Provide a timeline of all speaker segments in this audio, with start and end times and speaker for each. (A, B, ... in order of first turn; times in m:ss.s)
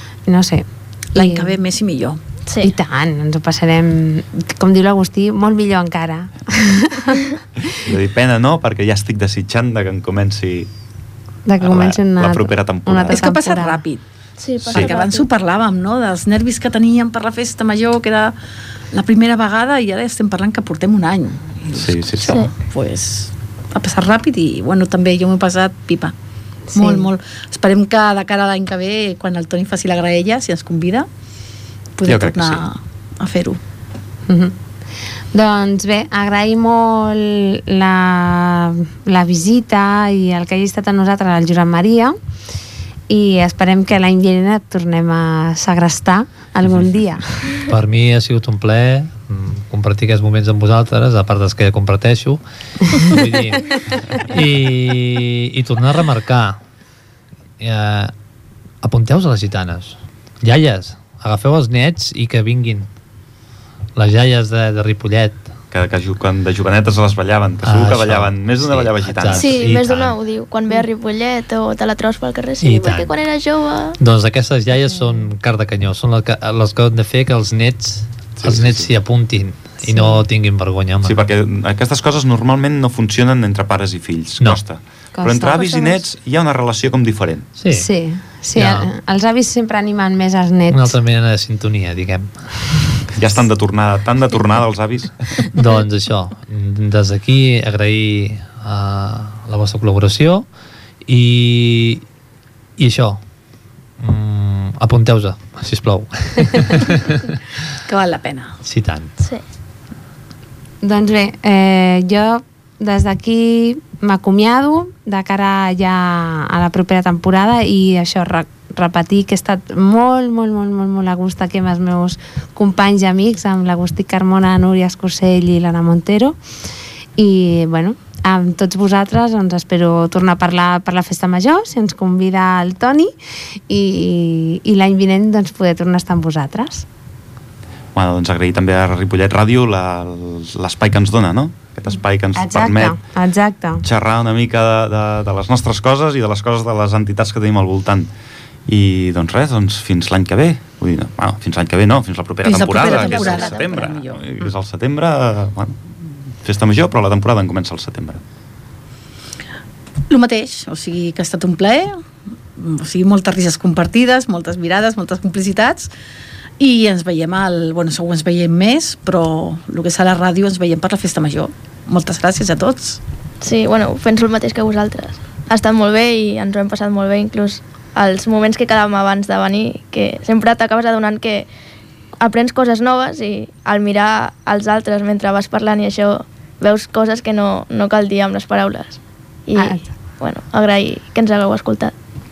0:00.2-0:01.6 A
0:01.1-0:02.2 B
0:02.4-0:02.7 C
0:02.6-0:07.3 A
0:07.8-0:10.7 D
0:11.4-0:13.8 A
0:11.6-0:13.2 D
0:13.1-0:14.0 B
0:14.4-0:15.3 C
0:14.7-0:18.3 B
0:18.9-0:26.1 B
0:21.7-0:22.5 D
0:22.2-0:22.5 C
0:26.7-0:31.1 B
0:26.7-0:27.0 A
0:32.0-0:33.6 B
0:32.0-0:32.6 D
0:34.3-0:34.5 A
0:35.3-0:42.1 A
0:43.1-0:47.5 A
0:47.6-0:56.6 E
0:57.6-0:58.1 E
0:58.8-1:02.9 E
1:04.0-1:05.4 E
1:05.7-1:09.6 D
1:07.6-1:10.2 E
1:09.3-1:14.0 C
1:12.6-1:13.1 E
1:14.0-1:21.2 E
1:18.4-1:18.9 D
1:19.8-1:20.2 A
1:21.0-1:27.5 D
1:25.1-1:26.0 A
1:25.6-1:25.9 C
1:27.6-1:27.9 E
1:27.7-1:30.9 A
1:28.5-1:28.9 E
1:30.7-1:32.5 E
1:33.1-1:35.5 D
1:35.5-1:40.4 E
1:41.0-1:42.0 E
1:42.8-1:43.2 E
1:44.0-1:47.2 E
1:47.8-1:48.6 B
1:48.6-1:49.1 E
1:50.8-2:06.4 A
2:07.2-2:13.1 A
2:13.7-2:16.8 A
2:17.9-2:22.9 D
2:22.3-2:23.8 A
2:23.8-2:28.1 D
2:28.6-2:38.2 D
2:32.4-2:34.2 B
2:32.7-2:33.8 C
2:40.1-2:42.0 B
2:42.6-2:45.9 B
2:46.6-2:53.0 B
2:53.4-3:01.5 C
3:02.2-3:11.9 C
3:09.5-3:09.9 A